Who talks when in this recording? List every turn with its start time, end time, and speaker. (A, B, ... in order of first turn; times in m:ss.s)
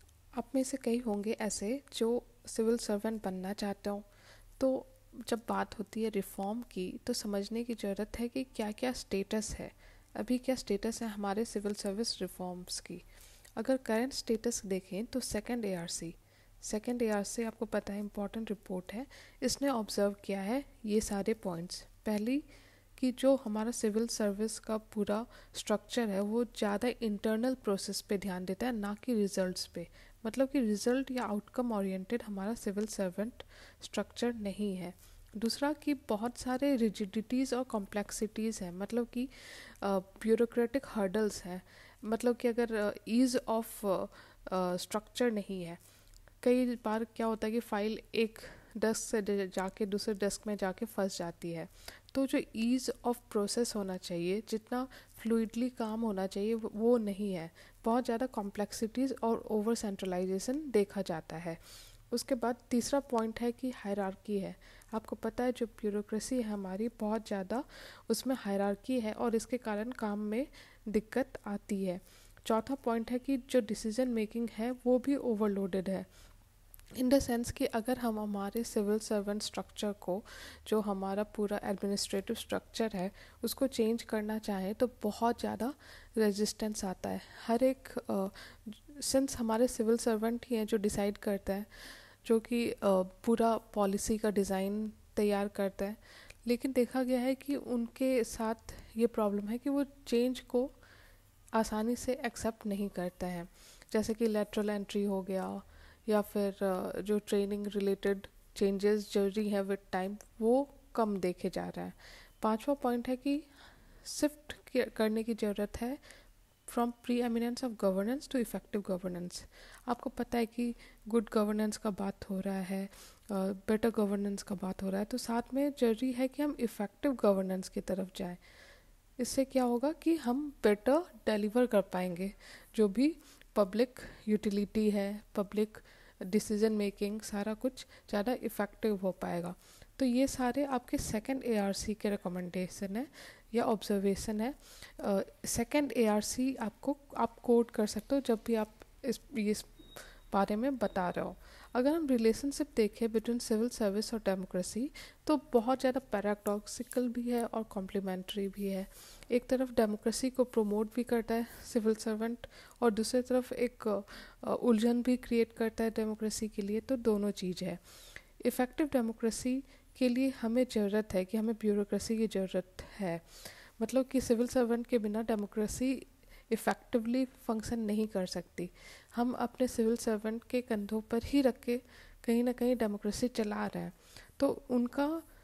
0:00.4-0:04.0 A
0:04.6-0:13.0 A
0:13.6-0:22.4 A
0:23.0-0:45.8 A
0:46.4-1:16.1 A
1:16.9-1:40.7 A
1:41.6-1:53.5 A
1:54.0-1:56.0 A
1:56.7-2:08.4 A
2:09.2-2:47.8 A
2:48.4-3:05.2 A